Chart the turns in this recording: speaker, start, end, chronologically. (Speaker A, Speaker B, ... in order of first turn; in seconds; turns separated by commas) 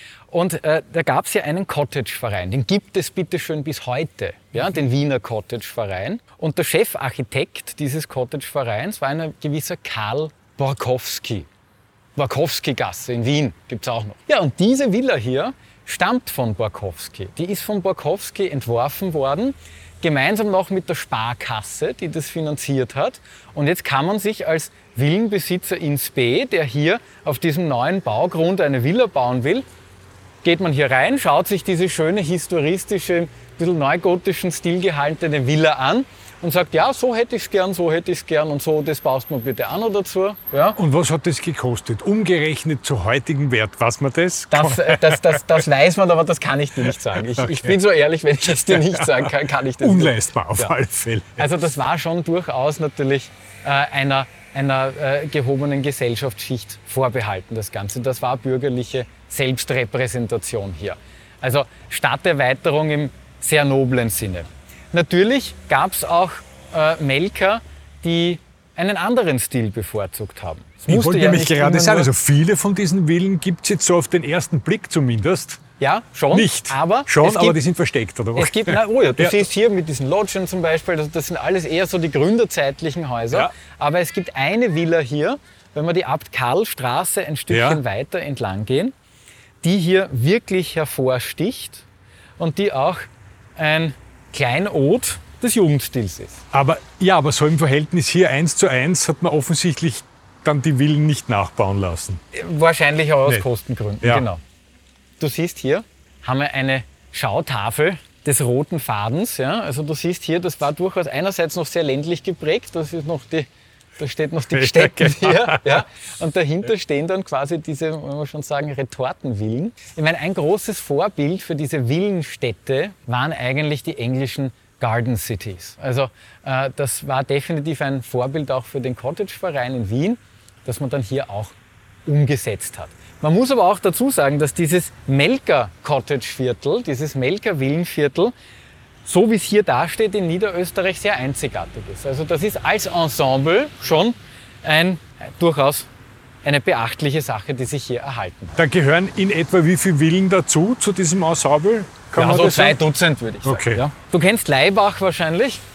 Speaker A: 0.3-11.5, Speaker A: 12.2-29.6, Speaker A: 30.4-40.8, Speaker B: 40.8-45.6, Speaker A: 44.5-50.7, Speaker B: 47.3-47.8, Speaker B: 48.7-51.5, Speaker A: 51.4-72.1, Speaker B: 70.9-75.6, Speaker A: 75.8-77.6, Speaker B: 76.3-79.5, Speaker A: 78.4-88.9, Speaker B: 87.5-87.8, Speaker A: 89.6-91.9, Speaker A: 92.4-96.4, Speaker B: 96.5-102.2, Speaker A: 102.3-104.4, Speaker A: 105.2-113.5, Speaker A: 114.0-138.3, Speaker B: 114.5-115.8, Speaker A: 139.1-145.9, Speaker A: 146.4-148.6, Speaker B: 148.6-152.8, Speaker A: 152.2-155.6, Speaker B: 153.4-153.8